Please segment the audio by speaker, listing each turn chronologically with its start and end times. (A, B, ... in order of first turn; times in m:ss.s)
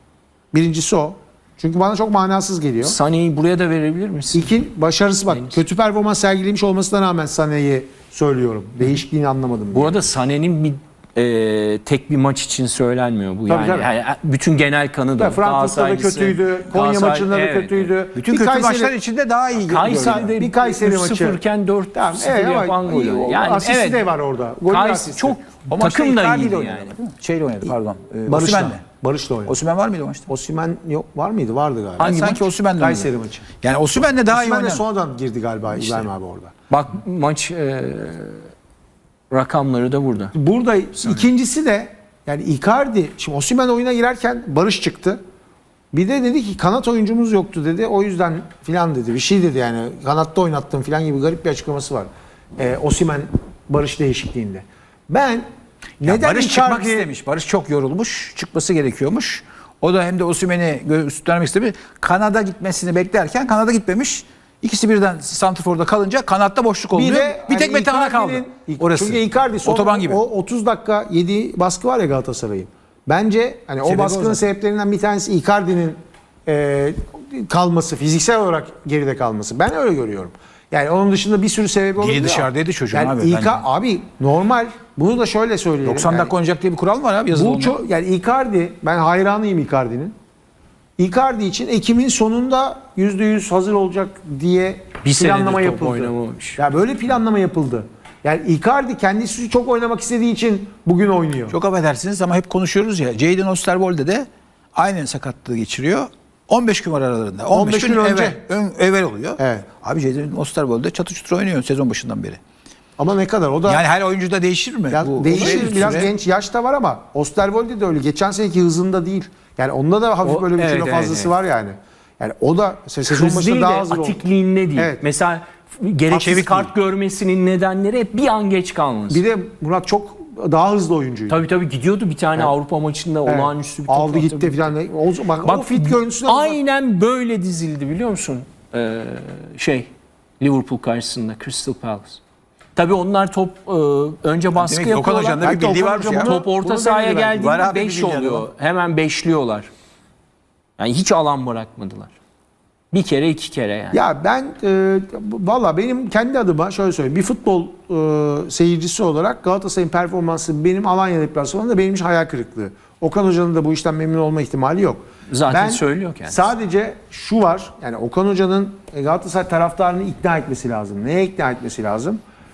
0:00.5-0:03.0 A
0:02.8-0:04.5 B
0:04.3-0:10.0 A
0:05.3-0:05.6 B
0:09.7-0:17.9 B
0:13.5-0:13.9 A
0:15.2-0:19.0 A
0:18.1-0:20.3 C
0:19.6-0:24.1 B
0:19.8-0:21.4 A
0:21.9-0:25.4 A
0:24.7-0:26.9 B
0:25.7-0:28.8 C
0:28.3-0:29.6 A
0:29.5-0:30.3 C
0:30.3-0:32.2 A
0:32.0-0:32.6 B
0:32.0-0:33.1 C
0:32.8-0:33.5 A
0:33.6-0:34.8 C
0:34.2-0:36.5 A
0:36.7-0:38.4 B
0:39.3-0:40.3 B
0:40.3-0:45.2 A
0:41.0-0:41.3 B
0:45.9-0:55.4 A
0:56.0-0:57.1 A
0:56.0-1:10.2 C
1:06.9-1:26.3 A
1:13.8-1:14.4 C
1:22.0-1:23.6 C
1:25.8-1:27.8 C
1:27.3-1:30.1 A
1:31.0-1:41.6 A
1:35.0-1:36.6 B
1:41.5-1:52.4 C
1:47.5-1:48.4 A
1:49.4-1:49.7 A
1:53.0-1:53.8 A
1:53.7-1:56.1 C
1:54.9-2:04.2 A
2:00.2-2:01.3 B
2:03.1-2:09.2 B
2:04.8-2:05.0 A
2:06.1-2:06.7 C
2:09.1-2:11.4 A
2:11.3-2:14.8 B
2:13.2-2:16.6 A
2:15.4-2:19.9 B
2:20.4-2:22.2 B
2:22.8-2:25.4 B
2:24.6-2:26.4 C
2:25.0-2:27.4 A
2:26.2-2:29.7 B
2:27.4-2:28.5 C
2:30.8-2:32.1 B
2:32.9-2:34.0 B
2:33.9-2:52.2 A
2:45.3-2:46.4 B